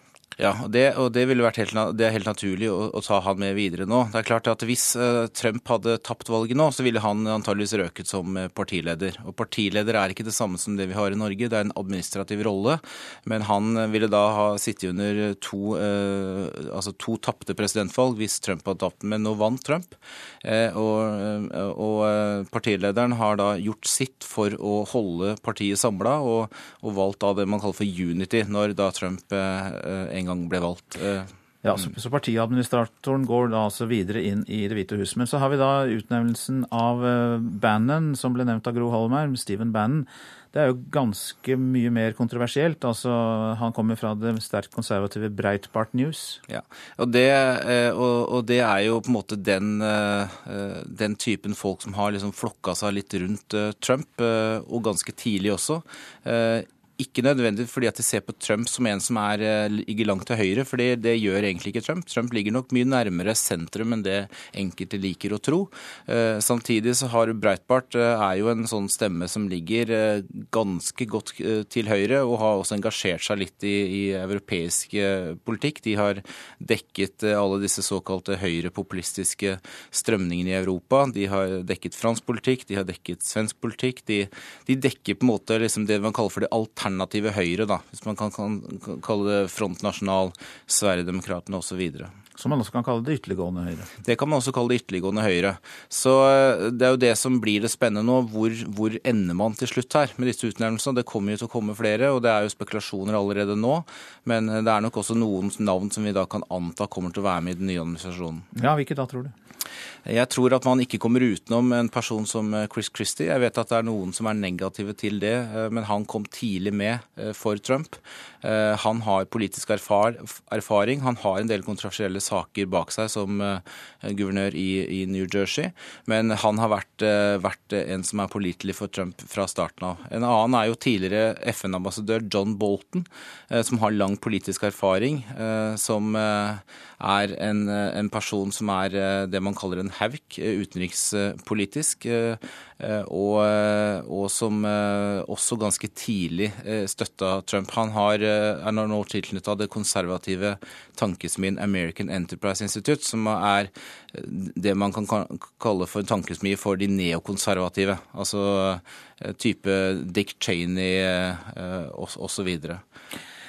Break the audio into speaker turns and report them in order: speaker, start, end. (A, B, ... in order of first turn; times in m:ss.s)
0:00.4-0:31.8 A
0:31.6-0:46.4 B
0:46.5-1:32.1 A
1:32.4-1:33.9 B
1:34.0-1:48.5 A
1:48.5-1:49.3 B
1:50.0-2:42.8 A